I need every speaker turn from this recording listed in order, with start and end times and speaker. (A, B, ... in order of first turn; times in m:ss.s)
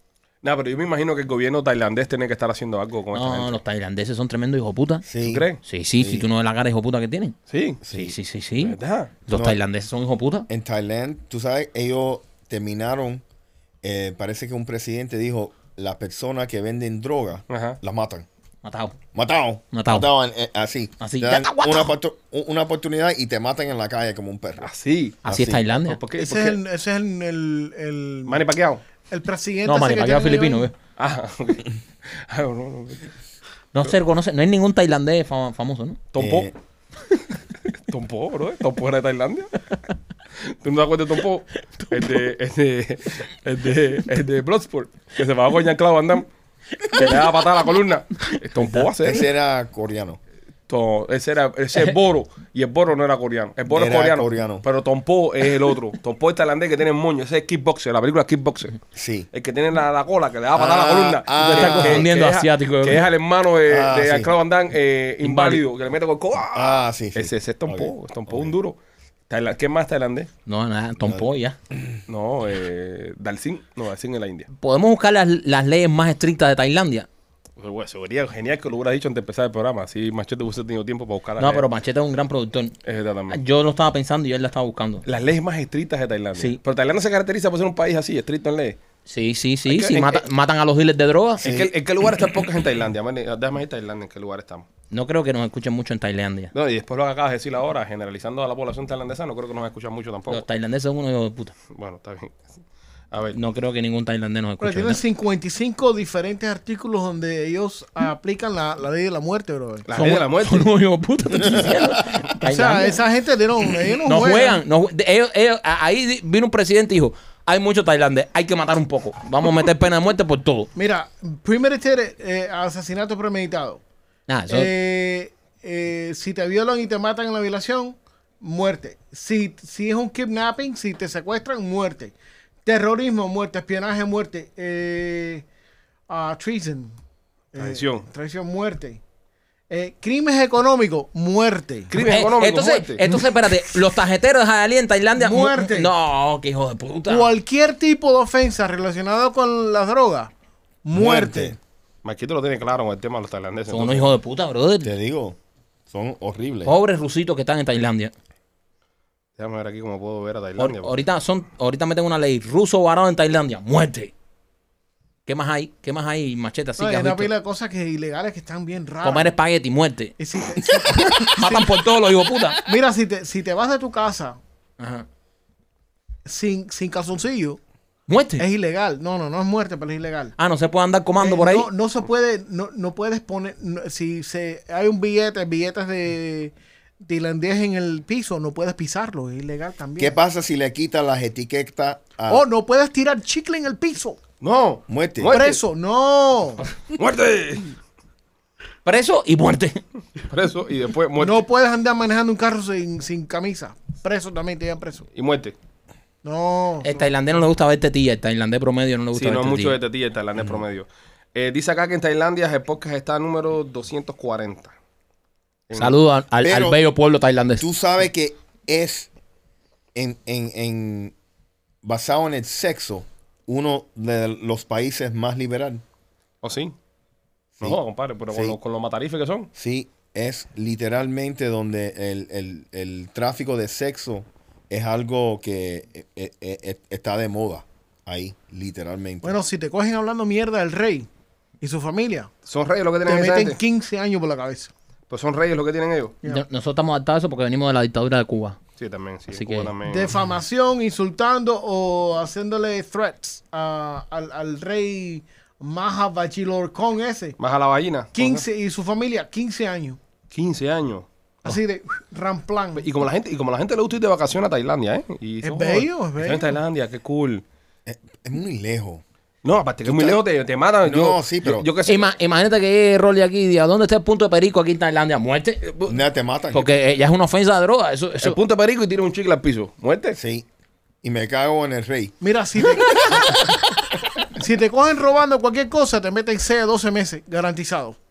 0:00.4-0:03.6 A
0:03.1-0:05.0 B
0:05.0-0:05.4 C
0:05.2-0:05.6 A
0:05.6-0:07.4 B
0:06.0-0:06.2 C
0:07.5-0:07.8 A
0:07.8-0:08.1 C
0:07.9-0:08.8 B
0:08.6-0:09.1 A
0:09.3-0:10.5 B
0:09.3-0:09.6 C
0:10.5-0:13.2 C
0:13.8-0:18.2 C
0:17.5-0:17.8 A
0:18.6-0:18.9 B
0:19.1-0:24.7 C
0:19.7-0:20.1 B
0:21.0-0:21.9 B
0:24.6-0:25.2 A
0:25.2-0:25.6 C
0:25.2-0:26.0 B
0:25.8-0:26.6 A
0:26.2-0:28.4 D
0:28.2-0:28.8 A
0:29.1-0:30.7 D
0:29.6-0:30.7 B
0:31.0-0:33.1 A
0:33.7-0:36.0 B
0:36.1-0:36.5 A
0:36.2-0:36.5 C
0:37.9-0:39.5 A
0:40.4-0:46.3 A
0:46.9-0:49.2 A
0:49.0-0:50.2 C
0:50.7-0:58.8 A
0:53.7-0:54.6 C
0:58.9-0:59.3 C
0:59.3-1:08.8 A
1:00.6-1:02.1 C
1:01.4-1:03.0 B
1:03.7-1:04.3 C
1:05.2-1:05.6 B
1:06.5-1:08.5 C
1:09.3-1:10.3 A
1:10.4-1:11.6 B
1:11.0-1:12.0 C
1:12.1-1:14.5 A
1:14.5-1:17.1 B
1:17.6-1:21.6 A
1:21.4-1:22.7 B
1:22.8-1:23.4 A
1:23.3-1:25.0 B
1:25.0-1:28.8 A
1:29.1-1:31.4 B
1:29.7-1:30.2 A
1:31.4-1:34.6 A
1:31.4-1:31.7 C
1:34.9-1:36.5 B
1:36.5-1:40.4 A
1:40.3-1:41.5 B
1:41.7-1:42.4 A
1:43.1-1:43.4 A
1:43.3-1:45.0 B
1:44.6-1:49.8 D
1:49.9-1:50.7 A
1:49.9-1:53.0 B
1:51.4-1:52.2 C
1:52.4-1:54.6 D
1:54.0-2:00.7 B
2:00.7-2:03.8 D
2:04.3-2:04.7 B
2:04.5-2:15.4 D
2:16.1-2:16.9 D
2:17.5-2:19.0 D
2:17.6-2:18.1 A
2:19.7-2:21.9 D
2:21.9-2:23.0 A
2:22.0-2:27.3 B
2:25.2-2:25.9 D
2:27.1-2:30.3 D
2:30.8-2:31.6 D
2:30.9-2:31.6 C
2:32.0-2:34.1 A
2:33.7-2:34.9 B
2:34.8-2:35.4 C
2:35.9-2:36.7 C
2:36.6-2:38.1 B
2:39.4-2:41.0 A
2:40.6-2:44.1 B
2:45.2-2:47.3 B
2:46.8-2:49.3 D
2:49.0-2:52.6 B
2:50.2-2:51.7 D
2:52.6-2:54.4 D
2:54.8-2:55.0 B
2:56.2-2:57.6 D
2:58.1-2:58.4 B
2:58.4-3:00.3 D
3:00.4-3:01.7 B
3:01.2-3:10.1 D
3:10.0-3:12.4 C
3:12.3-3:14.2 D
3:14.4-3:15.6 A
3:14.9-3:15.4 C
3:15.3-3:16.6 D
3:16.9-3:17.7 A
3:18.8-3:19.8 B
3:20.2-3:21.4 A
3:21.2-3:25.1 D
3:25.1-3:25.6 A
3:26.2-3:27.1 D
3:26.8-3:29.8 B
3:29.1-3:34.7 A
3:35.7-3:36.0 A
3:35.7-3:37.6 B
3:36.4-3:36.8 C
3:37.6-3:39.1 C
3:39.9-3:41.1 C
3:41.8-3:45.8 C
3:46.4-3:46.7 A
3:47.6-3:49.5 A
3:48.3-3:48.6 C
3:49.6-3:59.4 C
3:59.2-4:01.1 D
4:01.6-4:02.3 D
4:02.5-4:03.6 A
4:03.0-4:04.7 D
4:05.1-4:06.2 A
4:06.2-4:08.6 B
4:08.8-4:10.1 A
4:09.3-4:09.7 B
4:09.9-4:17.4 D
4:17.4-4:18.4 A
4:18.1-4:20.0 D
4:20.3-4:21.0 A
4:21.4-4:22.8 D
4:22.8-4:27.4 A
4:25.4-4:26.6 D
4:27.8-4:29.0 C
4:29.4-4:32.0 A
4:29.8-4:30.2 C
4:30.8-4:31.7 C
4:31.8-4:36.0 B
4:35.9-4:36.7 C
4:36.5-4:38.4 B
4:38.2-4:40.2 A
4:40.2-4:40.4 C
4:41.0-4:42.1 C
4:42.2-4:43.4 D
4:44.3-4:48.0 D